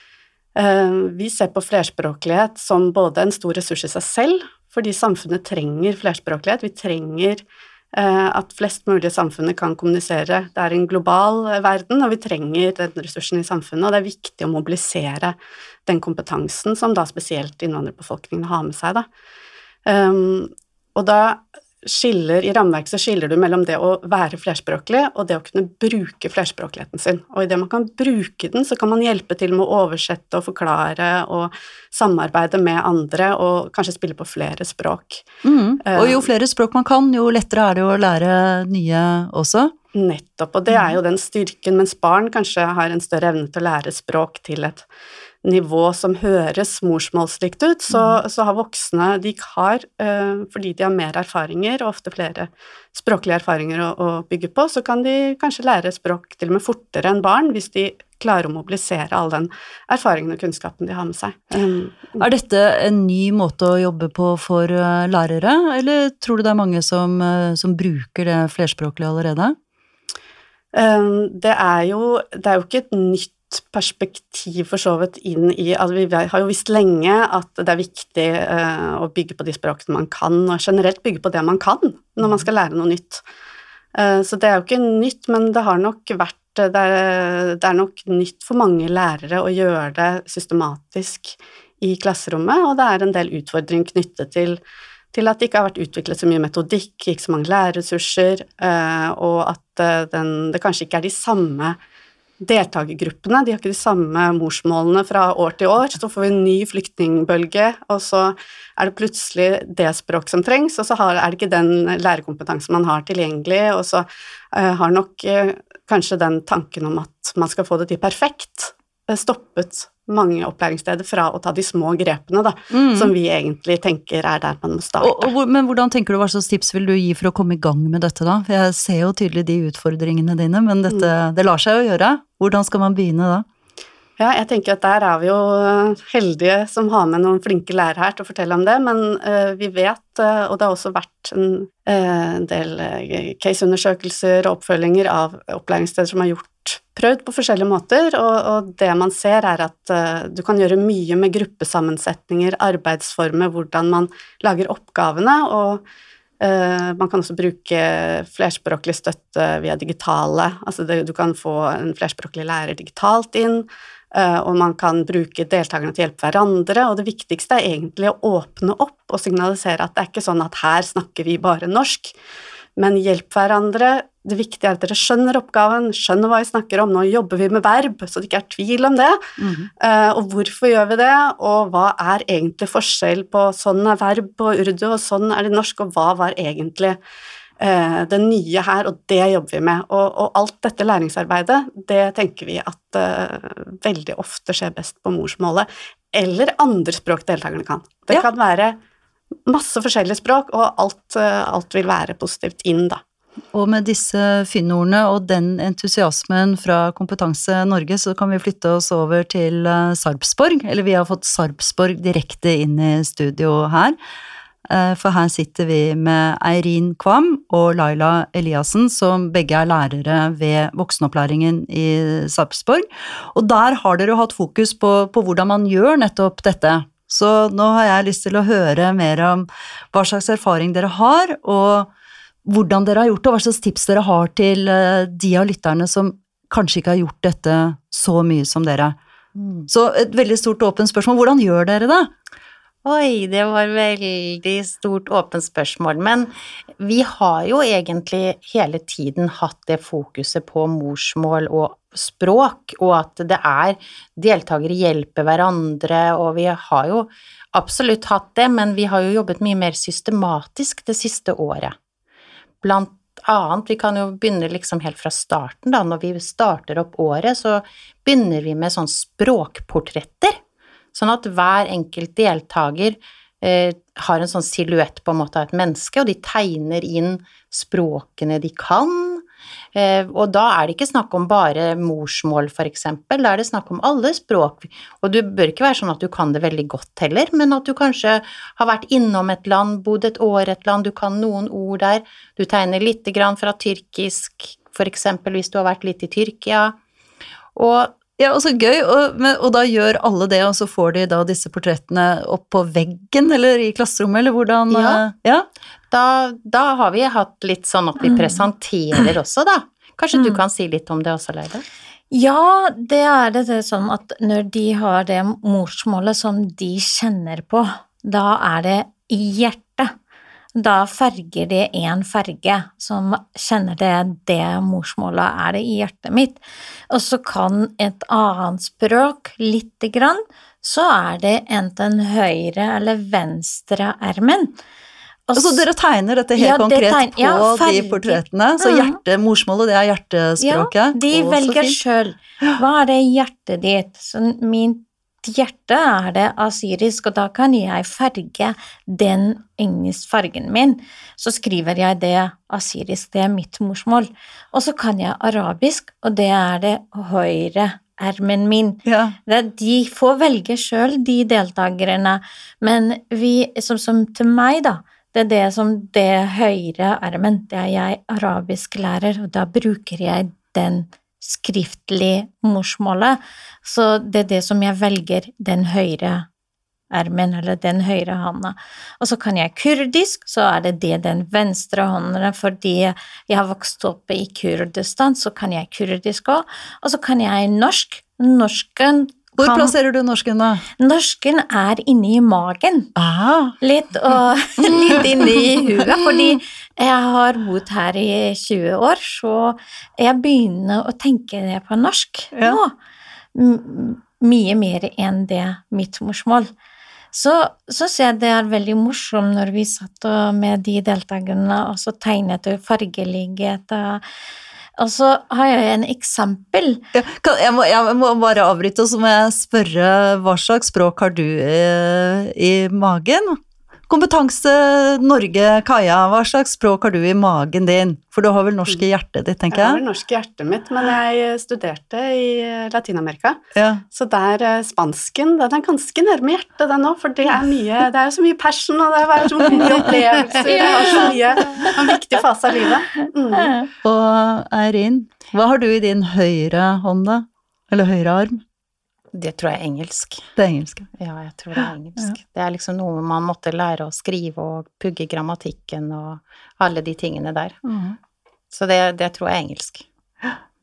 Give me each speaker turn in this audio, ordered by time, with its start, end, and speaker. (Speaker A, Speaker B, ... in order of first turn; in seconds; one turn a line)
Speaker A: 0.6-19.1
Speaker A: 19.8-35.2
Speaker B: 35.4-39.7
Speaker A: 35.8-36.3
Speaker A: 39.9-44.9
Speaker A: 45.4-62.2
Speaker B: 62.2-69.5
Speaker A: 70.7-83.2
Speaker A: 83.9-94.6
Speaker A: 95.1-101.8
Speaker A: 102.4-125.3
Speaker B: 122.7-123.1
Speaker B: 125.0-133.5
Speaker A: 134.2-155.8
Speaker A: 156.4-172.2
Speaker A: 172.8-179.2
Speaker B: 179.4-179.7
Speaker A: 179.8-187.0
Speaker A: 187.6-198.8
Speaker A: 199.5-203.0
Speaker B: 203.5-214.0
Speaker B: 214.7-231.9
Speaker B: 232.4-239.0
Speaker C: 239.3-239.7
Speaker B: 239.7-242.1
Speaker C: 242.8-261.8
Speaker C: 262.6-270.4
Speaker C: 270.9-296.8
Speaker C: 297.5-298.0
Speaker B: 298.2-305.5
Speaker C: 304.7-305.1
Speaker C: 305.9-311.6
Speaker D: 308.0-308.4
Speaker D: 310.1-310.4
Speaker D: 312.1-319.9
Speaker D: 320.6-334.6
Speaker D: 335.3-335.6
Speaker B: 335.4-341.8
Speaker D: 336.4-339.0
Speaker D: 340.4-376.3
Speaker B: 358.9-359.2
Speaker D: 376.9-389.7
Speaker B: 389.4-390.6
Speaker D: 390.8-392.9
Speaker B: 393.0-393.6
Speaker D: 393.6-402.7
Speaker B: 394.7-395.9
Speaker B: 402.3-402.6
Speaker D: 403.4-406.5
Speaker D: 407.1-414.1
Speaker D: 414.8-416.8
Speaker B: 416.9-429.8
Speaker A: 429.5-443.6
Speaker B: 433.6-433.8
Speaker D: 440.3-441.9
Speaker D: 443.4-443.7
Speaker B: 443.8-448.4
Speaker C: 449.1-450.3
Speaker B: 450.4-450.9
Speaker C: 450.9-457.6
Speaker B: 451.6-452.1
Speaker B: 457.6-458.0
Speaker C: 458.5-459.9